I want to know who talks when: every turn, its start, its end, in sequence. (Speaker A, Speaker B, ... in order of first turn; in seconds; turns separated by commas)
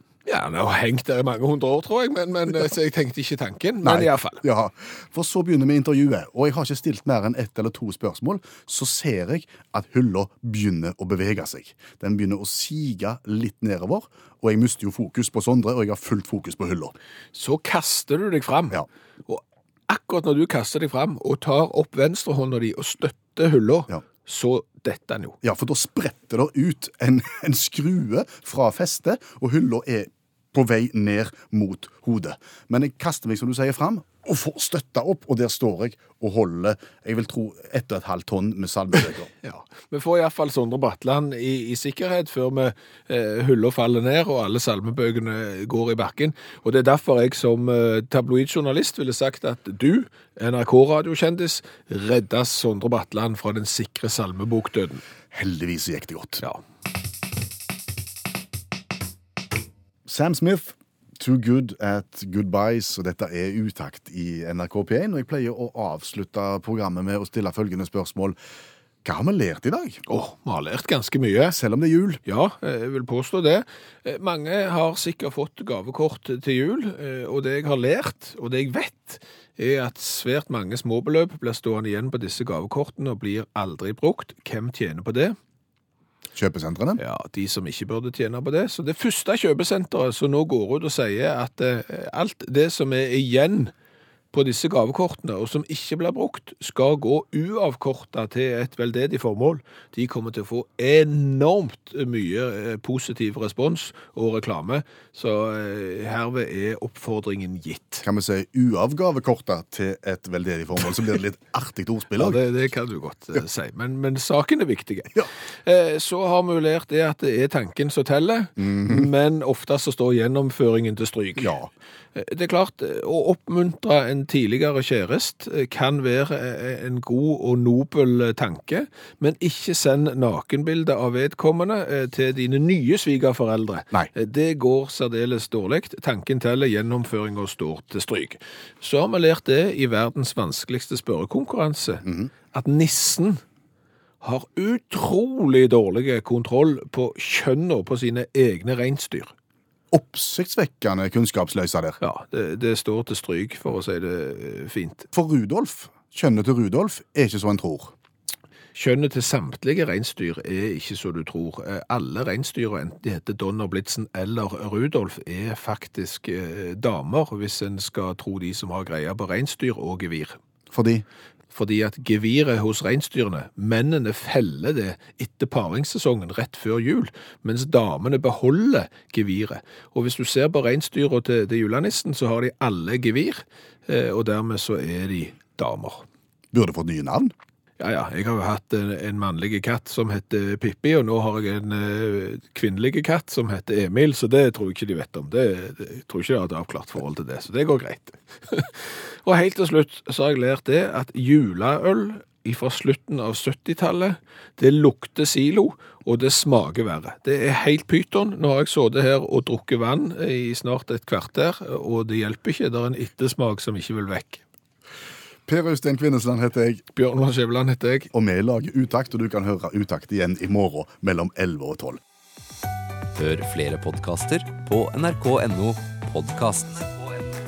Speaker A: 0.3-4.4, Speaker B: 3.8-17.0, Speaker A: 17.3-25.4, Speaker B: 25.4-39.3, Speaker A: 39.4-55.0, Speaker B: 55.3-56.4, Speaker B: 60.1-68.4, Speaker B: 69.0-70.0, Speaker A: 70.1-71.6, Speaker B: 71.5-72.2, Speaker A: 72.3-85.4, Speaker B: 86.3-87.0, Speaker A: 87.0-93.7, Speaker A: 94.3-108.0, Speaker B: 108.0-112.4, Speaker A: 112.2-121.6, Speaker B: 118.6-119.1, Speaker B: 121.4-121.7, Speaker A: 122.2-143.4, Speaker B: 142.0-142.3, Speaker A: 144.2-149.3, Speaker B: 149.9-152.0, Speaker A: 152.0-155.1, Speaker B: 155.1-157.9, Speaker A: 158.8-170.4, Speaker B: 170.7-171.1, Speaker A: 171.5-186.0, Speaker B: 186.5-187.3, Speaker A: 187.8-214.4, Speaker B: 215.5-216.8, Speaker A: 216.9-218.1, Speaker B: 218.1-222.0, Speaker C: 223.2-227.3